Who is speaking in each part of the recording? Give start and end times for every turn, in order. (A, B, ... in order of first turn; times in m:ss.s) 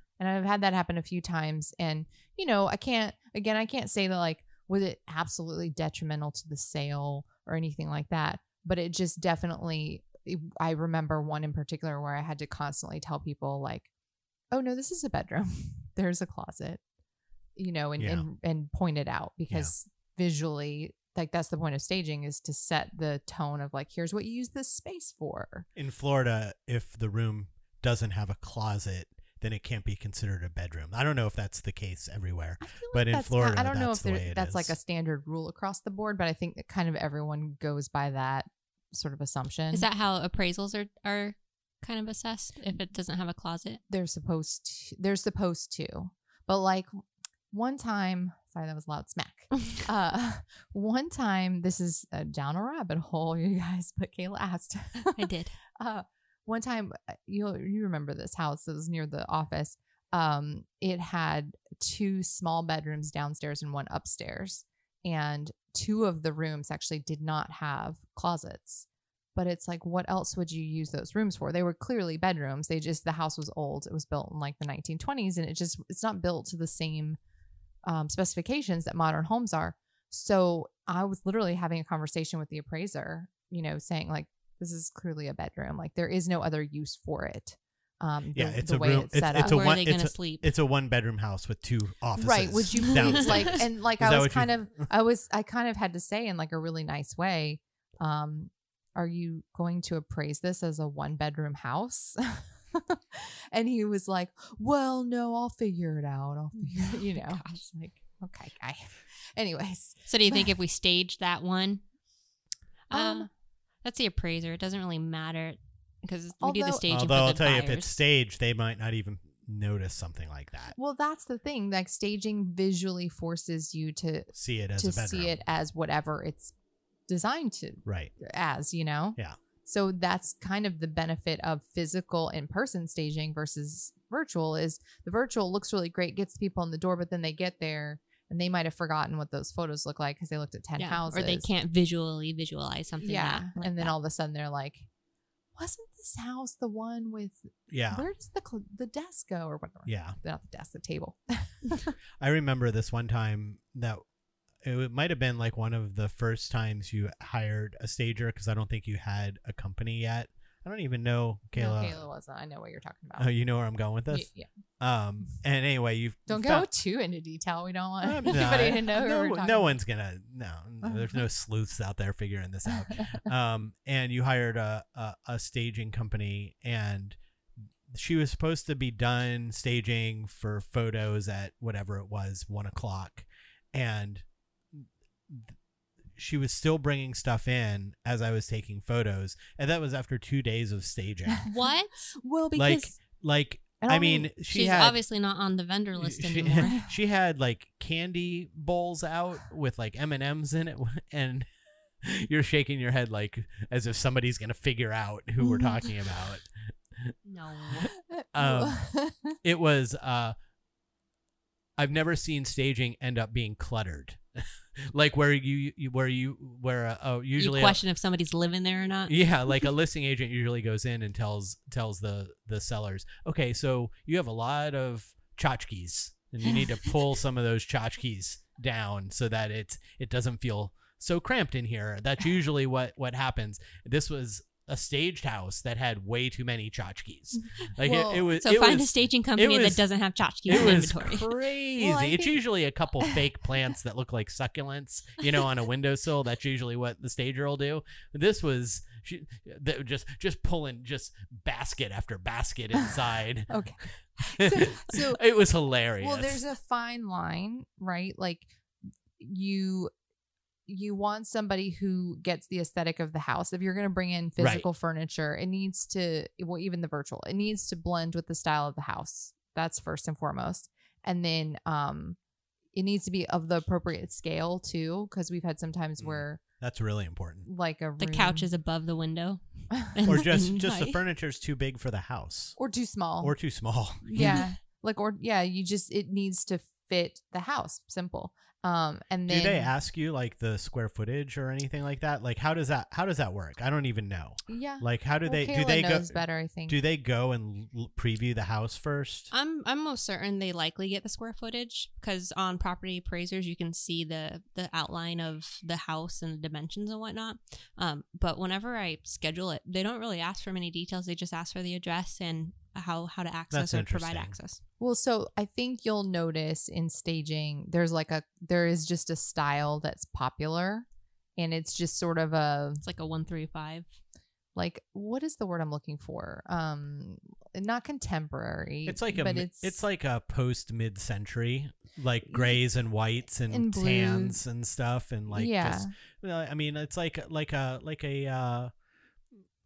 0:00.2-0:13.9 A
0:14.5-0:16.8 A
0:17.6-0:25.7 A
0:18.0-0:18.2 B
0:25.8-0:34.8 B
0:32.6-0:39.9 A
0:39.7-0:43.8 C
0:43.9-0:47.0 A
0:47.5-0:55.2 A
0:55.2-0:55.6 C
0:55.8-1:17.2 A
1:17.9-1:29.7 A
1:28.4-1:34.9 B
1:29.4-1:30.5 C
1:32.2-1:50.6 A
1:46.6-1:47.6 C
1:50.1-1:51.8 C
1:52.9-1:53.3 C
1:52.9-1:53.3 A
1:53.8-1:58.0 C
1:56.4-1:56.9 A
1:56.9-2:00.8 B
2:00.8-2:06.5 A
2:04.3-2:05.4 B
2:07.1-2:21.5 A
2:07.9-2:08.1 B
2:20.8-2:23.9 C
2:23.0-2:24.9 A
2:25.6-2:31.9 A
2:27.7-2:28.0 B
2:29.9-2:30.2 B
2:32.2-2:34.0 B
2:34.6-2:42.1 B
2:41.5-2:43.3 A
2:43.2-2:44.3 B
2:44.1-2:44.5 A
2:44.8-2:46.7 B
2:46.3-2:49.7 A
2:48.0-2:57.2 B
2:50.8-2:51.1 A
2:57.9-3:05.6 B
3:06.2-3:11.4 B
3:11.5-3:12.1 C
3:12.2-3:12.9 A
3:12.6-3:15.0 B
3:13.8-3:14.3 A
3:14.5-3:16.8 C
3:16.0-3:21.5 B
3:22.0-3:27.2 B
3:25.4-3:25.9 A
3:27.3-3:27.9 C
3:27.7-3:28.8 B
3:28.0-3:29.4 A
3:29.4-3:30.4 B
3:31.8-3:37.8 B
3:37.4-3:39.3 C
3:39.1-3:59.8 B
3:57.8-3:58.4 A
3:58.3-4:01.4 C
4:00.5-4:13.6 B
4:01.8-4:02.4 A
4:13.5-4:15.2 A
4:14.3-4:16.4 B
4:16.0-4:18.5 A
4:19.2-4:19.9 A
4:20.7-4:32.2 A
4:24.4-4:24.7 B
4:32.7-4:36.4 A
4:36.0-4:37.5 B
4:37.4-4:38.5 A
4:38.0-4:41.0 C
4:40.0-4:42.6 B
4:42.6-4:43.4 A
4:43.2-4:44.4 B
4:44.0-4:49.7 A
4:49.3-4:59.3 B
4:54.5-4:56.8 A
4:59.3-5:14.6 C
5:13.5-5:14.4 B
5:14.8-5:22.8 A
5:22.8-5:23.9 C
5:24.6-5:29.8 A
5:28.9-5:38.7 B
5:32.3-5:32.6 A
5:33.5-5:34.4 A
5:35.3-5:35.9 A